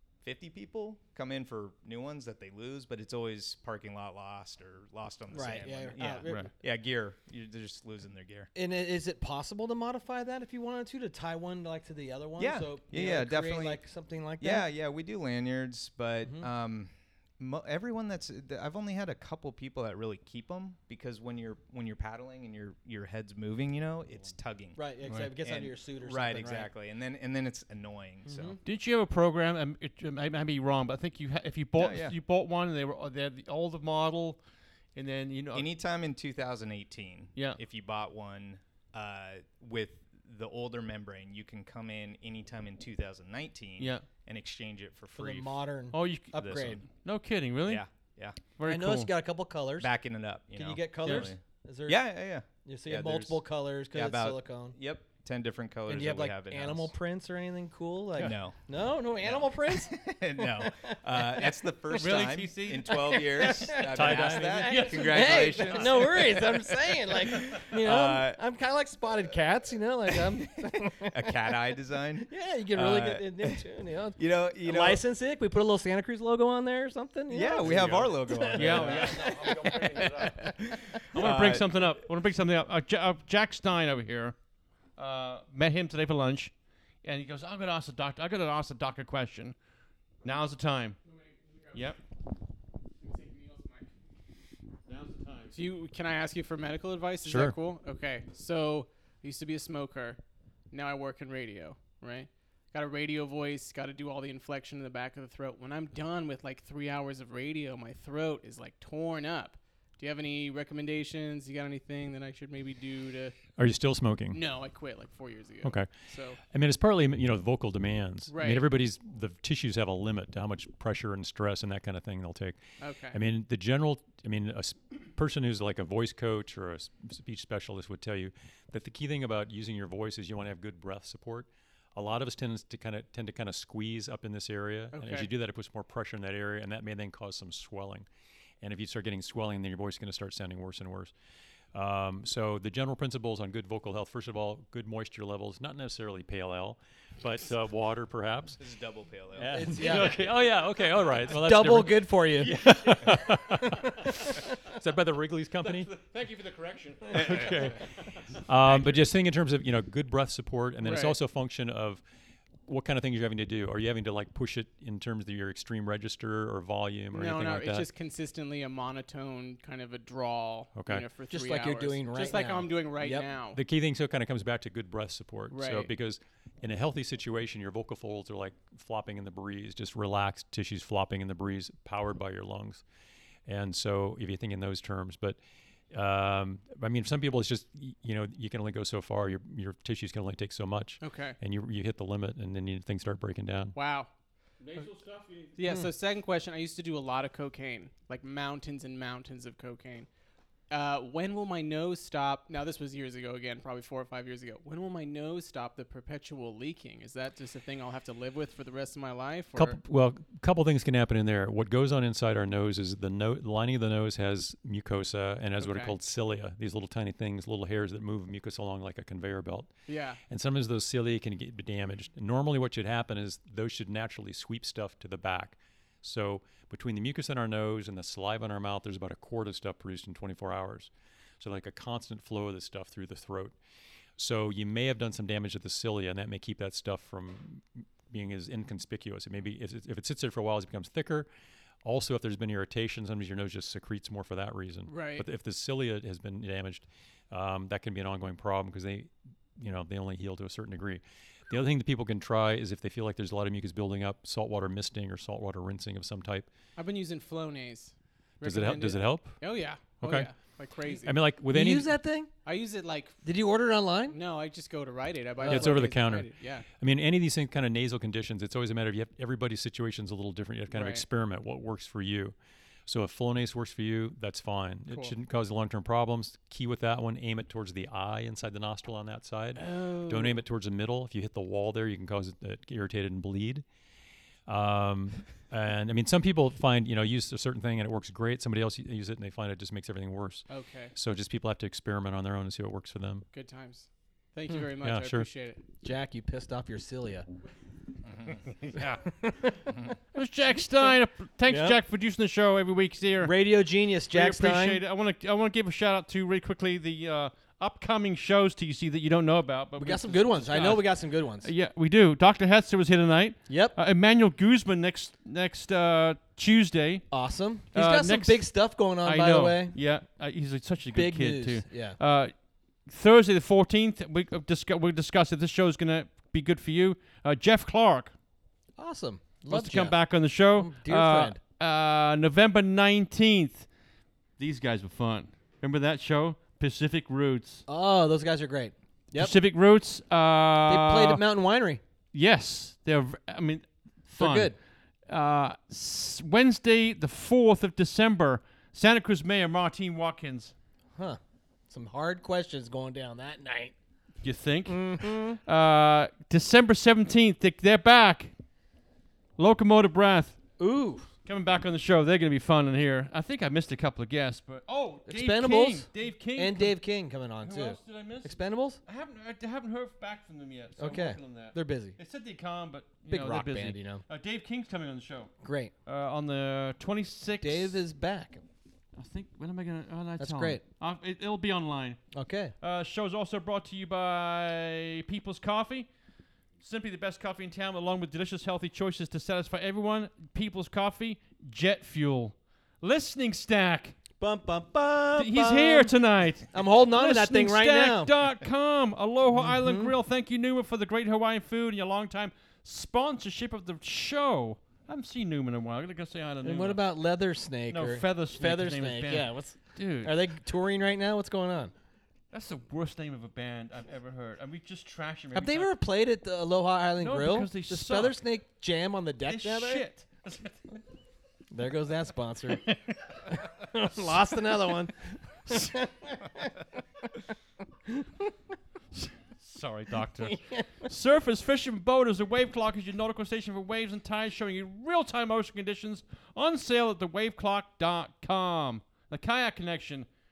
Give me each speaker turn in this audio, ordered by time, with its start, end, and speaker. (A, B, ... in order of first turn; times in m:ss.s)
0:00.2-0:08.5 A
0:05.3-0:06.5 B
0:06.2-0:06.5 C
0:08.5-0:14.6 B
0:12.4-0:13.8 A
0:14.4-0:24.8 A
0:24.8-0:26.7 B
0:25.0-0:25.3 C
0:25.4-0:28.6 A
0:28.3-0:28.6 B
0:28.6-0:34.4 C
0:31.8-0:32.1 A
0:34.9-0:35.7 C
0:35.5-0:45.6 A
0:43.8-0:44.0 C
0:45.1-0:46.8 B
0:45.9-0:47.8 C
0:46.3-0:46.8 A
0:47.7-0:48.4 A
0:48.6-0:49.1 C
0:48.6-0:49.9 B
0:49.8-0:53.4 A
0:50.5-0:52.0 B
0:51.0-0:51.3 C
0:52.6-0:54.8 B
0:53.9-0:56.9 A
0:55.9-1:01.5 B
0:58.2-0:58.6 A
0:59.2-1:08.4 A
1:01.9-1:03.1 C
1:02.9-1:11.5 B
1:03.9-1:04.9 D
1:05.0-1:05.8 C
1:10.1-1:13.6 A
1:12.3-1:20.5 B
1:14.2-1:15.0 A
1:17.3-1:19.5 A
1:17.7-1:24.4 C
1:20.0-1:21.9 A
1:25.0-1:29.6 C
1:30.2-1:31.0 C
1:31.0-1:31.9 E
1:31.7-1:32.0 C
1:33.0-1:33.9 E
1:34.9-1:35.6 C
1:35.5-1:40.2 E
1:37.2-1:37.5 D
1:40.7-1:53.4 E
1:53.6-1:54.4 D
1:54.3-1:56.4 E
1:55.6-1:55.9 D
1:56.5-2:02.6 D
1:58.3-1:58.6 E
2:02.8-2:03.2 E
2:03.1-2:18.1 D
2:14.9-2:15.3 E
2:18.6-2:21.1 D
2:21.7-2:28.6 D
2:28.6-2:29.8 A
2:29.3-2:35.9 D
2:29.5-2:30.2 B
2:31.3-2:34.3 B
2:35.6-2:37.8 C
2:37.1-2:42.0 D
2:37.1-2:37.6 A
2:40.8-2:41.2 E
2:42.6-2:47.9 D
2:47.1-2:53.6 E
2:50.7-2:51.0 D
2:51.3-2:53.3 B
2:53.5-3:02.8 D
2:55.5-2:55.9 E
3:03.4-3:05.4 D
3:05.9-3:13.7 D
3:11.0-3:11.4 E
3:13.7-3:14.1 E
3:14.6-3:15.6 C
3:15.6-3:20.1 E
3:20.7-3:29.8 E
3:29.5-3:39.7 D
3:35.6-3:35.9 E
3:39.9-3:40.2 E
3:40.3-3:53.6 D
3:54.2-4:01.3 D
4:01.8-4:16.5 D
4:04.9-4:05.3 E
4:16.8-4:21.2 E
4:18.4-4:19.4 D
4:20.0-4:20.3 D
4:20.9-4:21.9 D
4:21.5-4:22.3 B
4:22.4-4:23.2 E
4:23.2-4:24.2 B
4:24.1-4:26.6 E
4:25.4-4:32.3 D
4:25.4-4:25.9 B
4:30.7-4:31.0 E
4:32.8-4:43.6 D
4:39.6-4:40.4 E
4:44.5-4:53.2 D
4:50.5-4:50.9 E
4:53.3-4:55.6 E
4:54.8-4:55.3 D
4:55.8-4:57.3 B
4:58.8-4:59.9 B
5:00.1-5:03.4 C
5:01.5-5:01.8 B
5:03.2-5:04.8 B
5:04.1-5:17.1 C
5:09.8-5:11.5 B
5:13.5-5:13.8 B
5:17.1-5:19.8 B
5:17.7-5:22.3 C
5:20.9-5:22.0 B
5:22.8-5:28.1 C
5:28.8-5:31.4 B
5:29.5-5:33.7 C
5:34.4-5:37.6 C
5:37.7-5:39.3 B
5:39.1-5:41.2 C
5:40.7-5:41.8 B
5:42.1-5:44.5 C
5:44.1-5:44.5 B
5:45.1-5:50.5 C
5:51.7-5:53.7 B
5:54.2-5:58.3 C
5:54.7-5:55.4 B
5:59.4-6:00.4 C
6:00.6-6:01.1 B
6:01.2-6:06.8 C
6:05.1-6:08.8 B
6:07.4-6:15.3 C
6:10.8-6:12.0 B
6:13.1-6:14.0 B
6:15.4-6:15.7 B
6:15.8-6:17.8 C
6:17.4-6:18.4 B
6:19.0-6:22.1 C
6:20.2-6:20.6 B
6:22.1-6:22.5 B
6:22.6-6:25.9 C
6:26.6-6:33.9 C
6:34.2-6:35.9 B
6:35.2-6:46.8 C
6:36.5-6:38.1 B
6:39.4-6:39.9 B
6:46.4-6:51.7 B
6:47.7-6:50.2 C
6:52.3-6:55.7 C
6:55.3-6:59.9 B
6:57.0-6:58.2 C
6:59.2-7:00.8 C
7:01.5-7:02.7 B
7:02.5-7:03.4 C
7:03.3-7:06.6 B
7:05.5-7:05.7 C
7:07.9-7:08.2 B
7:08.9-7:20.1 C
7:10.2-7:10.9 B